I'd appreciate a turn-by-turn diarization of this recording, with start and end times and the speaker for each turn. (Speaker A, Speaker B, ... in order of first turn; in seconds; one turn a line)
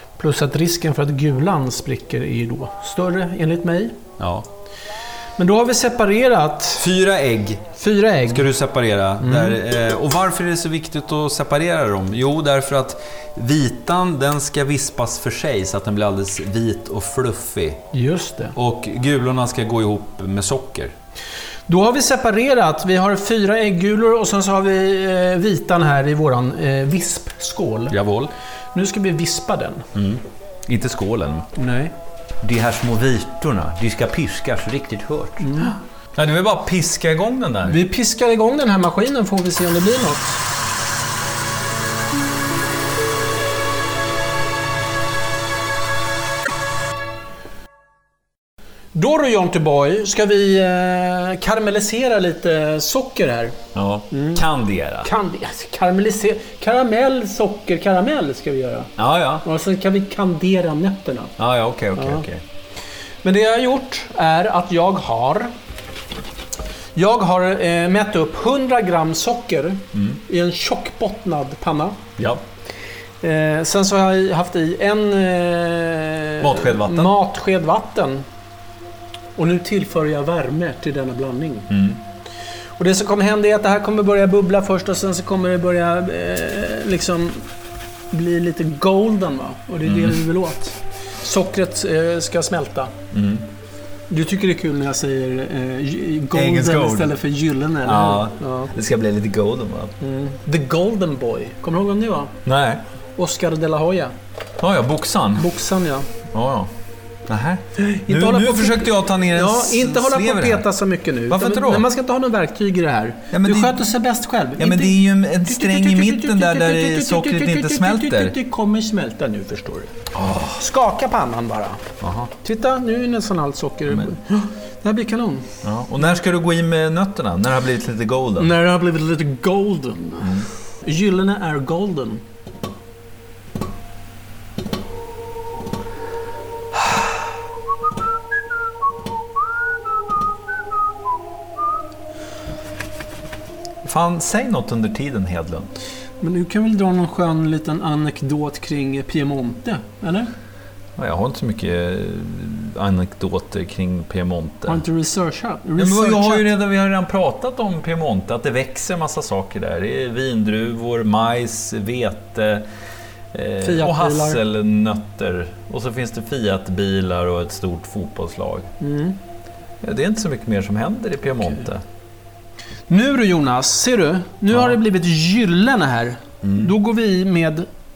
Speaker A: 0.2-4.0
Speaker B: 4.2-4.5
Speaker A: 5.4-6.9
Speaker B: 6.8-7.8
Speaker A: 7.8-8.5
Speaker B: 8.3-17.8
Speaker A: 9.2-9.6
Speaker A: 17.9-18.6
Speaker B: 18.6-20.9
Speaker A: 21.7-28.0
Speaker B: 27.9-28.3
Speaker A: 28.7-29.8
Speaker B: 29.9-31.5
Speaker A: 31.6-31.9
Speaker B: 32.4-37.8
Speaker A: 35.4-35.8
Speaker A: 37.6-40.4
Speaker A: 48.9-53.6
Speaker B: 53.7-55.1
Speaker A: 54.1-54.4
Speaker A: 55.0-58.9
Speaker B: 59.0-59.4
Speaker A: 59.4-61.3
Speaker B: 61.4-62.4
Speaker A: 62.0-62.2
Speaker A: 63.2-65.5
Speaker A: 67.0-72.0
Speaker B: 69.9-70.2
Speaker B: 72.2-72.4
Speaker A: 73.2-78.2
Speaker B: 76.4-77.1
Speaker A: 79.3-81.7
Speaker B: 81.7-82.0
Speaker A: 82.8-87.5
Speaker A: 88.1-92.9
Speaker B: 89.8-90.2
Speaker B: 93.1-93.5
Speaker A: 94.1-98.7
Speaker B: 96.3-97.1
Speaker B: 97.8-99.9
Speaker A: 100.0-102.3
Speaker B: 102.5-102.8
Speaker A: 103.2-104.1
Speaker B: 104.6-105.5
Speaker A: 105.4-106.1
Speaker B: 106.3-106.7
Speaker B: 107.3-110.7
Speaker A: 107.8-119.9
Speaker B: 111.3-111.8
Speaker B: 113.3-113.8
Speaker B: 114.6-118.3
Speaker B: 120.1-120.6
Speaker A: 120.6-121.8
Speaker B: 122.0-122.3
Speaker A: 122.4-125.5
Speaker B: 125.6-128.5
Speaker A: 128.4-132.2
Speaker B: 130.2-130.5
Speaker B: 143.8-145.7
Speaker A: 146.2-150.3
Speaker B: 151.0-154.8
Speaker A: 154.7-156.5
Speaker B: 155.8-162.7
Speaker B: 163.3-168.7
Speaker A: 163.6-164.4
Speaker A: 168.8-169.2
Speaker B: 169.8-171.8
Speaker A: 172.9-177.7
Speaker B: 174.5-174.8
Speaker B: 176.4-176.7